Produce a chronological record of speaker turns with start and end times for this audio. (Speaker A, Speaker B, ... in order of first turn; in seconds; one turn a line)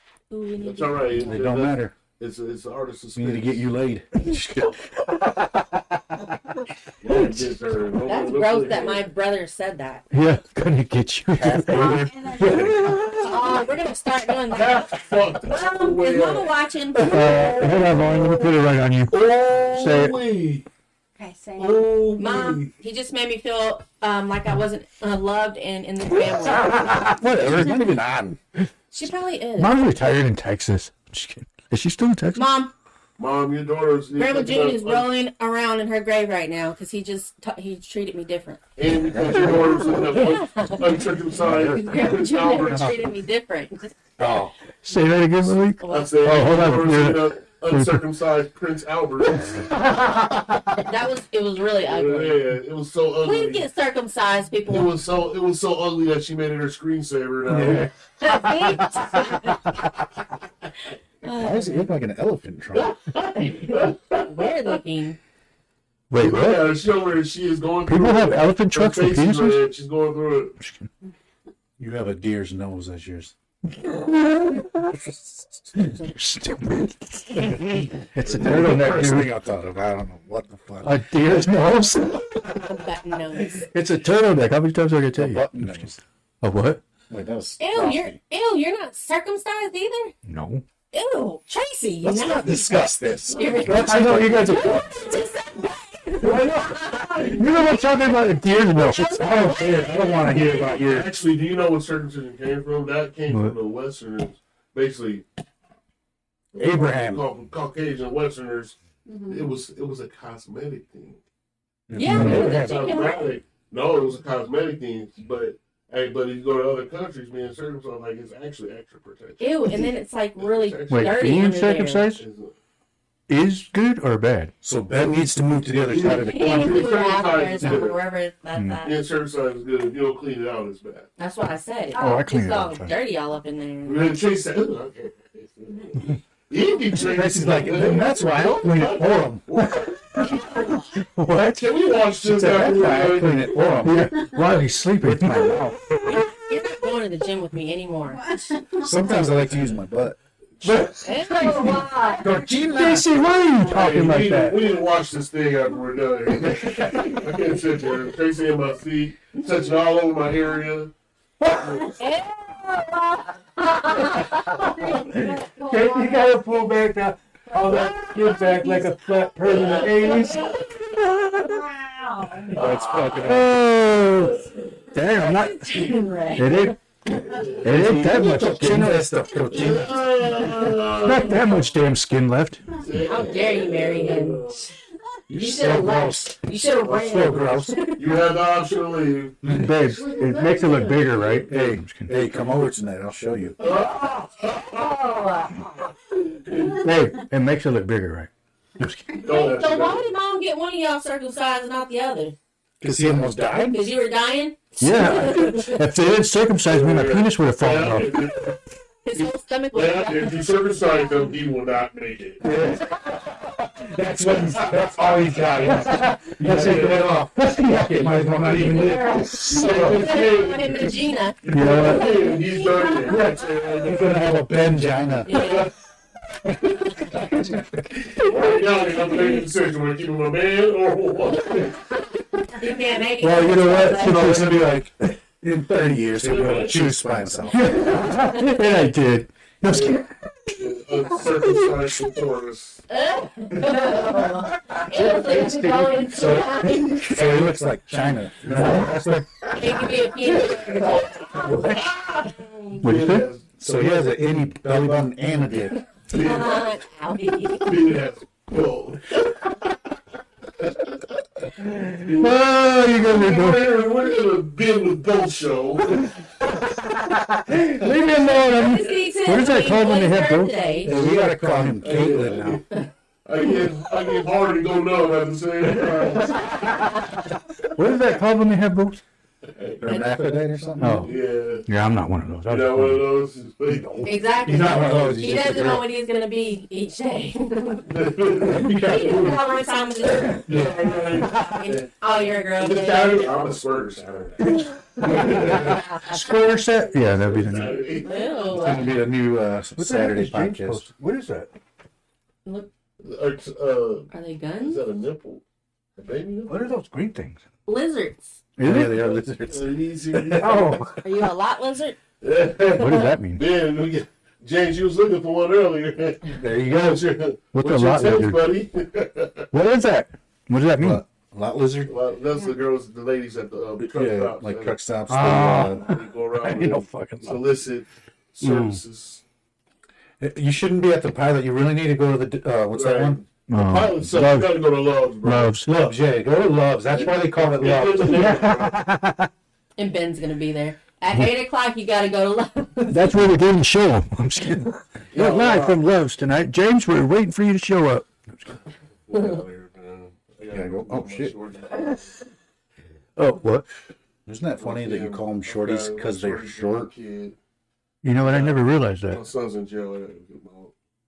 Speaker A: 0.3-1.4
Speaker B: 0.6-3.7
Speaker C: 1.2-1.9
Speaker C: 3.1-6.2
Speaker B: 7.0-9.1
Speaker A: 8.0-10.1
Speaker D: 10.1-13.3
Speaker C: 11.3-12.9
Speaker E: 11.7-13.1
Speaker A: 13.2-17.5
Speaker B: 14.5-20.6
Speaker D: 17.0-19.2
Speaker D: 19.7-20.2
Speaker E: 21.1-22.0
Speaker B: 21.6-22.7
Speaker A: 22.2-27.1
Speaker D: 26.5-27.8
Speaker C: 27.0-28.4
Speaker A: 28.9-29.7
Speaker D: 29.6-32.4
Speaker A: 32.3-32.7
Speaker B: 33.2-35.1
Speaker A: 34.1-38.7
Speaker B: 38.8-43.0
Speaker C: 39.1-39.9
Speaker A: 39.9-44.0
Speaker C: 41.4-42.1
Speaker C: 42.7-43.0
Speaker C: 44.2-44.5
Speaker D: 44.8-48.0
Speaker A: 45.8-46.2
Speaker B: 45.8-49.7
Speaker D: 49.5-50.6
Speaker A: 50.8-52.5
Speaker B: 51.8-53.7
Speaker A: 53.2-55.0
Speaker B: 54.7-57.9
Speaker D: 57.5-59.7
Speaker A: 58.2-59.7
Speaker A: 61.2-61.9
Speaker C: 61.2-62.9
Speaker B: 62.7-64.8
Speaker A: 63.4-65.2
Speaker D: 66.1-66.9
Speaker B: 66.2-70.6
Speaker D: 67.8-69.7
Speaker D: 70.6-70.9
Speaker C: 71.8-73.3
Speaker D: 73.8-74.9
Speaker D: 75.7-79.3
Speaker B: 78.3-78.9
Speaker C: 78.3-81.5
Speaker D: 80.8-82.4
Speaker A: 82.5-83.7
Speaker D: 83.7-86.8
Speaker C: 85.1-86.0
Speaker C: 87.1-88.2
Speaker A: 87.6-90.1
Speaker D: 90.2-90.6
Speaker A: 90.9-97.9
Speaker C: 92.0-94.6
Speaker D: 93.6-94.9
Speaker D: 96.2-99.3
Speaker A: 98.7-100.2
Speaker C: 98.9-101.1
Speaker B: 100.1-105.2
Speaker D: 103.3-103.6
Speaker C: 106.5-107.2
Speaker B: 106.5-111.2
Speaker E: 109.0-109.5
Speaker C: 111.9-113.1
Speaker A: 111.9-113.3
Speaker D: 112.0-112.5
Speaker B: 112.0-121.5
Speaker A: 119.4-122.1
Speaker D: 120.9-122.2
Speaker B: 122.1-122.5
Speaker D: 123.3-124.5
Speaker C: 124.6-127.1
Speaker B: 125.9-128.0
Speaker A: 126.1-129.0
Speaker D: 128.6-128.9
Speaker B: 128.8-131.1
Speaker A: 131.2-134.2
Speaker E: 131.9-132.3
Speaker D: 131.9-132.9
Speaker B: 133.8-140.8
Speaker C: 136.9-139.8
Speaker D: 141.0-141.8
Speaker B: 141.6-143.5
Speaker C: 142.2-144.3
Speaker D: 143.8-146.1
Speaker C: 145.0-145.8
Speaker A: 146.1-148.5
Speaker E: 148.1-149.0
Speaker C: 148.8-150.2
Speaker B: 150.6-150.9
Speaker D: 150.6-151.9
Speaker A: 151.0-152.3
Speaker C: 152.2-153.2
Speaker D: 152.6-154.6
Speaker B: 153.6-160.9
Speaker D: 156.4-157.3
Speaker D: 161.4-161.8
Speaker B: 161.6-162.0
Speaker A: 161.9-165.9
Speaker E: 164.6-166.1
Speaker D: 165.1-171.6
Speaker A: 167.6-170.8
Speaker B: 169.6-170.6
Speaker E: 171.6-172.4
Speaker B: 172.5-173.4
Speaker C: 172.5-173.5
Speaker D: 173.2-176.8
Speaker B: 174.2-174.6
Speaker A: 175.2-176.7
Speaker B: 177.1-177.6
Speaker D: 177.6-179.2
Speaker C: 177.6-180.6
Speaker B: 179.5-181.7
Speaker D: 180.9-182.6
Speaker B: 182.8-184.7
Speaker A: 182.9-184.7
Speaker C: 185.3-187.8
Speaker A: 185.3-188.2
Speaker B: 188.0-191.6
Speaker C: 189.4-189.8
Speaker D: 189.5-192.2
Speaker A: 189.9-191.2
Speaker C: 191.5-193.6
Speaker B: 193.6-195.5
Speaker A: 194.5-195.7
Speaker B: 196.4-196.8
Speaker D: 196.7-199.3
Speaker B: 199.2-200.1
Speaker A: 199.2-202.3
Speaker C: 202.8-203.8
Speaker A: 203.5-205.8
Speaker D: 204.8-208.5
Speaker B: 206.6-208.6
Speaker A: 209.0-211.2
Speaker B: 209.1-212.4
Speaker D: 212.4-213.0
Speaker C: 212.5-220.3
Speaker D: 215.6-218.4
Speaker B: 216.5-216.9
Speaker A: 218.4-223.2
Speaker B: 219.3-223.3
Speaker D: 221.5-222.2
Speaker C: 223.0-225.6
Speaker A: 225.2-225.7
Speaker B: 225.3-225.7
Speaker C: 226.6-228.3
Speaker B: 228.2-231.8
Speaker A: 232.5-234.4
Speaker D: 233.2-235.1
Speaker C: 234.0-237.9
Speaker B: 236.2-237.7
Speaker D: 237.5-240.7
Speaker A: 238.1-238.6
Speaker B: 239.7-242.8
Speaker D: 241.3-242.2
Speaker A: 242.9-247.1
Speaker D: 244.9-249.0
Speaker C: 246.1-249.8
Speaker A: 249.5-252.6
Speaker B: 250.4-253.5
Speaker D: 251.4-251.9
Speaker D: 252.8-255.5
Speaker C: 253.6-255.8
Speaker B: 256.1-256.8
Speaker A: 256.1-257.8
Speaker B: 257.5-259.6
Speaker D: 261.7-263.8
Speaker B: 262.9-266.1
Speaker D: 266.6-271.6
Speaker A: 268.4-270.9
Speaker C: 270.8-272.6
Speaker B: 271.7-276.9
Speaker D: 275.8-277.1
Speaker D: 277.7-279.0
Speaker B: 279.4-280.1
Speaker C: 279.8-281.2
Speaker A: 279.9-280.2
Speaker D: 280.8-283.1
Speaker B: 281.0-281.7
Speaker B: 282.4-284.6
Speaker C: 284.0-285.9
Speaker A: 284.0-293.5
Speaker B: 287.9-289.4
Speaker C: 288.4-289.4
Speaker B: 290.2-295.8
Speaker D: 291.2-291.6
Speaker D: 295.0-298.0
Speaker C: 295.1-295.8
Speaker A: 295.6-296.3
Speaker B: 297.0-298.9
Speaker A: 298.0-298.9
Speaker C: 298.5-300.9
Speaker D: 299.8-301.5
Speaker A: 302.4-302.7
Speaker B: 303.0-305.4
Speaker A: 304.1-304.8
Speaker B: 305.9-306.7
Speaker D: 306.5-307.4
Speaker A: 307.6-308.4
Speaker D: 308.6-309.1
Speaker C: 308.6-310.8
Speaker B: 309.4-310.9
Speaker D: 310.4-311.0
Speaker A: 311.0-312.0
Speaker B: 312.2-319.5
Speaker D: 312.7-313.4
Speaker C: 316.5-317.0
Speaker D: 317.5-318.6
Speaker D: 319.5-321.0
Speaker C: 320.8-321.9
Speaker B: 321.8-324.8
Speaker C: 323.8-325.9
Speaker D: 325.1-327.6
Speaker B: 325.5-329.2
Speaker D: 328.4-328.8
Speaker C: 330.2-333.2
Speaker B: 332.7-335.6
Speaker D: 333.5-334.7
Speaker D: 335.2-335.7
Speaker C: 335.6-338.5
Speaker B: 336.9-338.8
Speaker D: 338.0-339.3
Speaker A: 339.8-343.2
Speaker D: 342.9-348.6
Speaker B: 345.1-345.8
Speaker B: 349.1-352.1
Speaker C: 350.5-351.3
Speaker D: 353.2-353.7
Speaker C: 354.2-356.9
Speaker B: 354.6-357.4
Speaker D: 358.0-359.2
Speaker B: 358.2-360.7